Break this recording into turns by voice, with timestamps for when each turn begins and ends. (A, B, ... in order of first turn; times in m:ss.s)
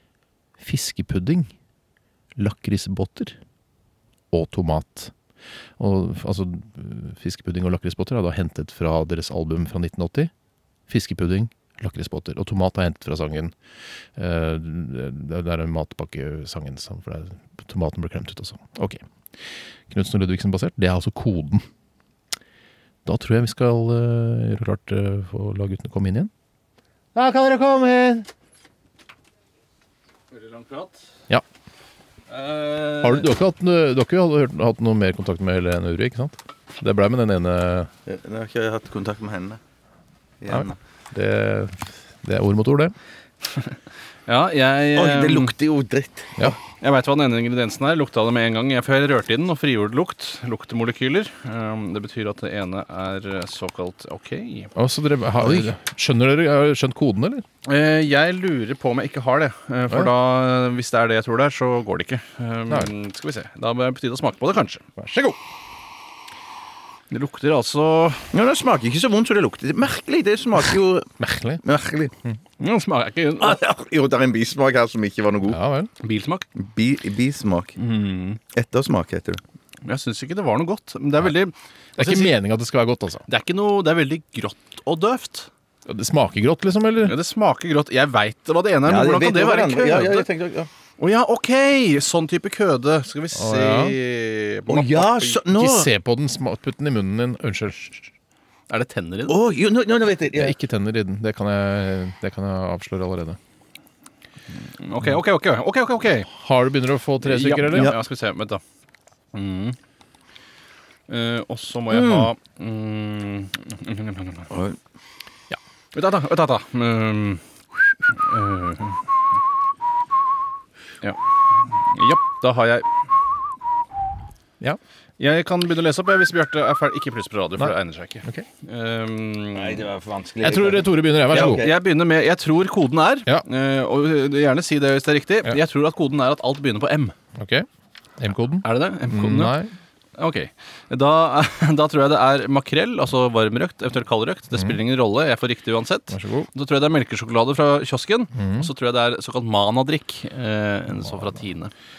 0:00.6-0:01.5 A
0:02.4-0:03.4 A
0:04.3-0:05.1 A
0:05.8-0:10.3 A
0:10.9-0:13.5 A
0:14.2-0:19.0 A
0:19.9-0:21.6 A
0:23.0-0:26.3 A
0:27.1-0:28.3 A
0:30.3-0:31.0 B
0:32.3-0:33.3 B
0:33.0-0:37.9 A
0:38.1-0:39.6 C
0:40.4-0:40.7 C
0:40.5-0:42.9 A
0:44.2-0:45.5 B
0:44.9-0:46.6 C
0:46.8-0:54.7 B
0:54.8-0:57.4 A
0:57.6-1:04.8 B
1:05.0-1:05.4 A
1:07.1-1:08.3 B
1:08.3-1:11.1 C
1:11.2-1:11.6 A
1:11.6-1:12.1 C
1:12.6-1:13.6 B
1:13.4-1:15.6 C
1:15.5-1:15.9 A
1:16.0-1:16.5 B
1:16.6-1:17.8 C
1:17.8-1:18.4 B
1:18.5-1:19.4 C
1:19.8-1:22.3 B
1:22.0-1:23.2 A
1:23.3-1:25.5 B
1:25.8-1:27.2 A
1:27.0-1:30.3 B
1:28.8-1:30.7 C
1:31.0-1:35.4 B
1:33.3-1:34.0 A
1:34.7-1:35.9 C
1:35.5-1:38.1 A
1:38.7-1:39.4 B
1:39.3-1:40.5 C
1:40.3-1:43.4 A
1:44.8-1:46.3 B
1:46.3-1:48.0 A
1:47.2-1:48.6 B
1:47.7-1:48.0 C
1:49.3-1:49.8 B
1:51.1-1:54.5 B
1:51.9-1:52.3 C
1:54.5-1:54.8 C
1:55.9-1:57.4 B
1:58.1-1:59.0 B
2:01.0-2:02.9 B
2:05.2-2:09.8 B
2:07.6-2:08.4 A
2:09.5-2:11.8 C
2:10.4-2:11.6 A
2:11.3-2:17.1 B
2:17.4-2:17.6 A
2:18.2-2:19.7 A
2:18.6-2:19.5 B
2:20.2-2:31.7 B
2:24.5-2:24.8 A
2:26.1-2:26.5 A
2:28.3-2:28.7 A
2:31.0-2:31.4 A